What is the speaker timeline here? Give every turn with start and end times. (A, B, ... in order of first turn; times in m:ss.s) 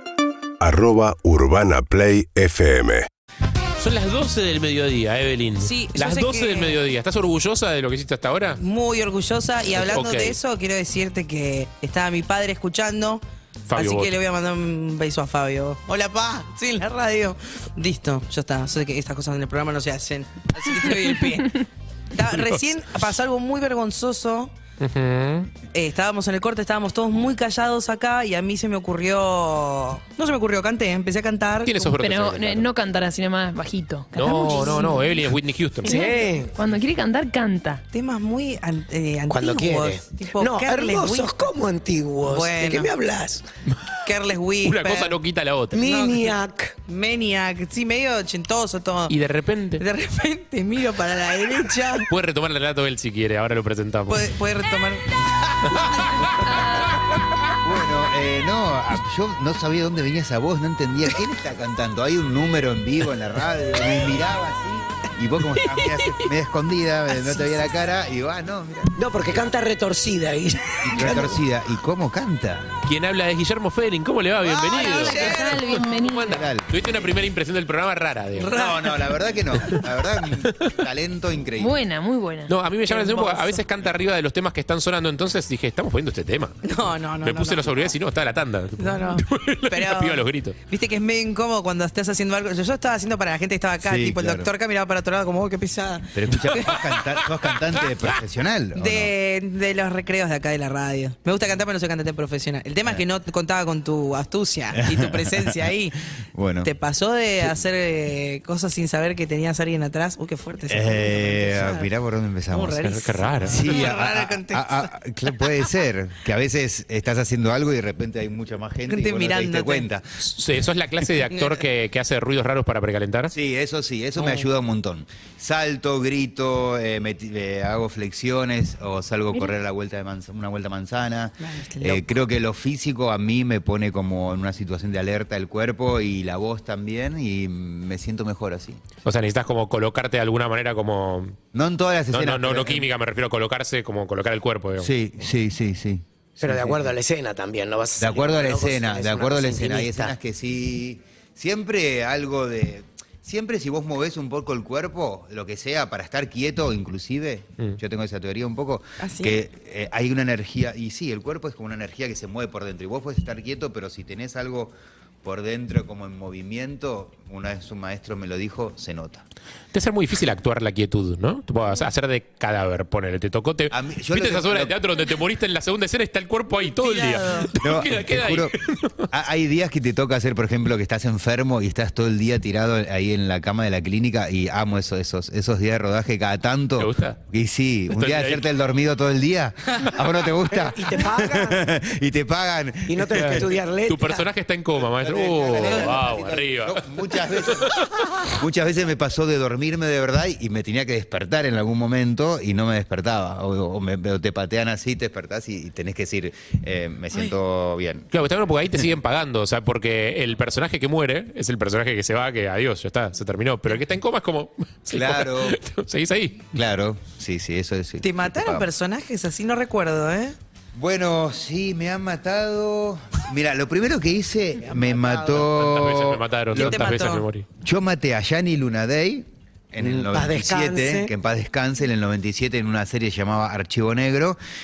0:00.6-0:03.1 A
0:03.8-0:08.6 B
0:05.6-0:06.8 C
0:08.6-0:13.2 C
0:09.7-0:10.4 B
0:13.7-0:14.1 B
0:13.7-0:24.5 C
0:22.2-0:22.6 B
0:24.8-0:25.5 B
0:25.7-0:31.9 C
0:31.6-0:32.7 B
0:32.0-0:35.3 D
0:34.1-0:36.0 B
0:35.8-0:37.8 D
0:35.8-0:36.5 E
0:37.9-0:41.5 C
0:39.3-0:43.4 E
0:42.2-0:42.9 C
0:44.0-0:45.2 C
0:44.6-0:45.8 B
0:45.7-0:46.7 E
0:45.7-0:49.1 C
0:49.1-0:49.8 B
0:49.8-0:52.1 C
0:52.1-0:54.3 B
0:54.1-0:56.2 C
0:57.6-1:09.4 F
1:09.0-1:11.4 E
1:10.8-1:12.7 F
1:12.8-1:15.3 B
1:14.5-1:15.9 C
1:14.7-1:16.5 D
1:15.1-1:15.6 F
1:15.9-1:18.5 B
1:16.2-1:16.8 F
1:18.4-1:19.0 C
1:18.4-1:21.8 F
1:20.4-1:20.8 B
1:21.6-1:22.6 D
1:22.5-1:26.7 B
1:22.9-1:23.6 C
1:26.6-1:28.0 C
1:27.2-1:30.6 B
1:28.8-1:36.9 C
1:33.8-1:34.5 F
1:36.1-1:39.1 F
1:38.8-1:46.0 C
1:44.7-1:45.6 F
1:46.3-1:46.7 F
1:46.6-1:51.9 C
1:50.7-1:52.9 F
1:52.5-1:54.9 C
1:52.8-1:53.7 B
1:53.4-2:00.2 F
1:58.9-1:59.9 C
2:00.2-2:03.3 B
2:01.3-2:01.6 C
2:03.3-2:18.8 F
2:04.2-2:04.5 C
2:11.4-2:12.2 C
2:19.0-2:21.4 B
2:21.5-2:22.9 F
2:22.1-2:24.9 B
2:24.8-2:26.9 F
2:26.4-2:30.1 E
2:28.0-2:49.2 F
2:39.0-2:39.4 C
2:49.7-2:59.1 B
2:53.7-2:54.8 F
2:56.6-2:57.5 C
2:57.6-3:13.5 F
3:06.8-3:07.2 B
3:07.9-3:08.5 B
3:10.5-3:11.7 E
3:12.8-3:14.3 E
3:13.1-3:16.9 B
3:14.8-3:28.1 F
3:15.6-3:15.9 C
3:17.4-3:18.2 B
3:28.1-3:36.5 B
3:34.9-3:35.6 F
3:36.5-3:38.7 F
3:38.0-3:40.4 C
3:40.7-3:46.8 F
3:44.6-3:45.1 E
3:45.4-3:47.4 B
3:46.5-3:47.2 C
3:47.6-3:54.4 F
3:49.8-3:51.1 E